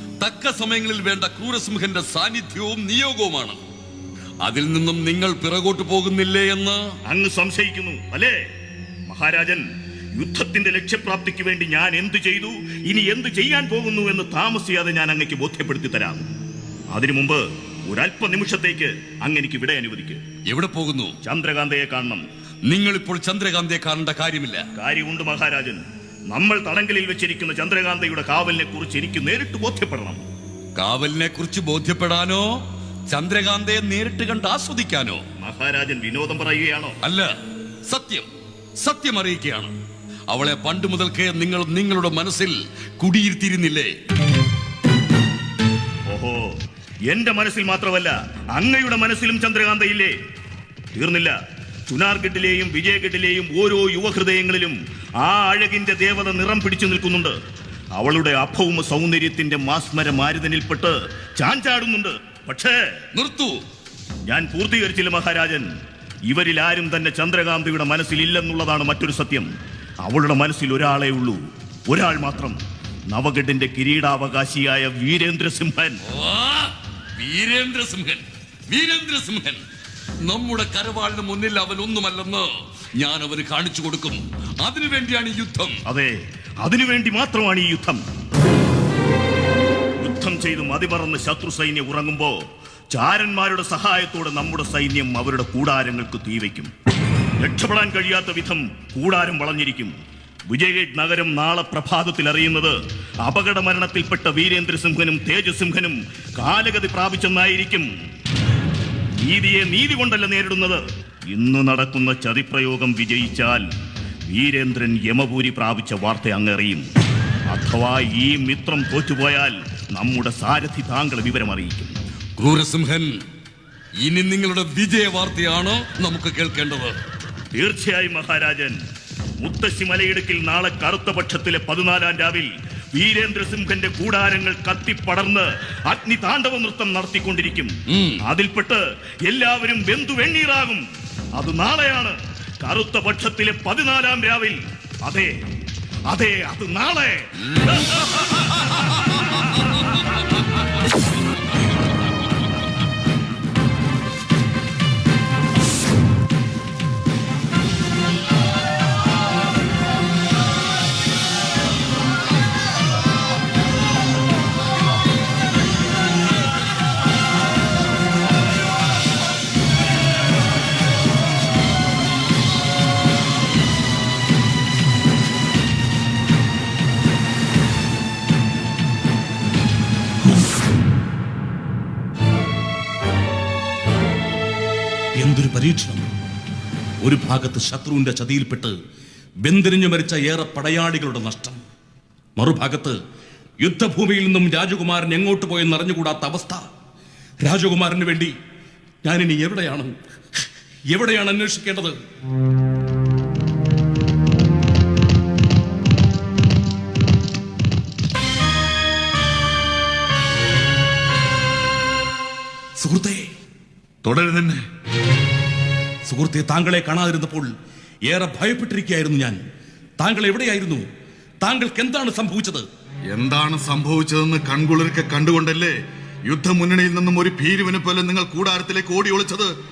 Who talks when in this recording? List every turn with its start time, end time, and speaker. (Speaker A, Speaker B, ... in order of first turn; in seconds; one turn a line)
Speaker A: 0.2-3.6
Speaker A: 4.4-6.8
Speaker B: 7.1-8.4
Speaker B: 9.1-9.6
Speaker B: 10.1-16.2
Speaker B: 16.9-20.2
Speaker A: 20.5-21.1
Speaker B: 21.2-22.2
Speaker A: 22.7-24.6
Speaker B: 24.8-30.2
Speaker A: 30.8-32.5
Speaker A: 33.1-35.2
Speaker B: 35.4-36.9
Speaker A: 37.0-37.3
Speaker A: 37.9-38.3
Speaker A: 38.8-39.7
Speaker A: 40.3-43.9
Speaker B: 46.1-46.5
Speaker B: 47.1-50.1
Speaker B: 50.9-51.3
Speaker B: 51.9-57.3
Speaker B: 58.0-62.8
Speaker A: 63.1-63.6
Speaker B: 64.2-65.7
Speaker B: 66.3-69.5
Speaker B: 70.0-72.6
Speaker B: 73.1-76.0
Speaker A: 76.1-79.6
Speaker A: 80.2-82.5
Speaker A: 83.0-85.7
Speaker B: 85.9-88.0
Speaker B: 90.0-92.4
Speaker B: 92.9-96.7
Speaker B: 97.4-99.9
Speaker B: 100.5-107.9
Speaker B: 109.2-113.6
Speaker B: 114.3-116.8
Speaker B: 117.5-122.0
Speaker A: 122.4-123.1
Speaker A: 124.0-126.9
Speaker B: 127.5-128.8
Speaker B: 129.4-137.7
Speaker B: 138.3-140.8
Speaker B: 141.4-145.3
Speaker B: 146.1-148.0
Speaker C: 185.2-186.1
Speaker C: 187.0-188.8
Speaker C: 189.4-191.6
Speaker C: 192.4-192.9
Speaker C: 193.6-196.6
Speaker C: 197.4-198.3
Speaker C: 199.0-199.9
Speaker C: 200.9-201.9
Speaker C: 212.8-213.3
Speaker D: 214.0-214.6
Speaker C: 216.1-217.5
Speaker C: 218.1-219.4
Speaker C: 220.0-220.8
Speaker C: 221.4-222.7
Speaker D: 223.1-225.8
Speaker D: 226.3-229.5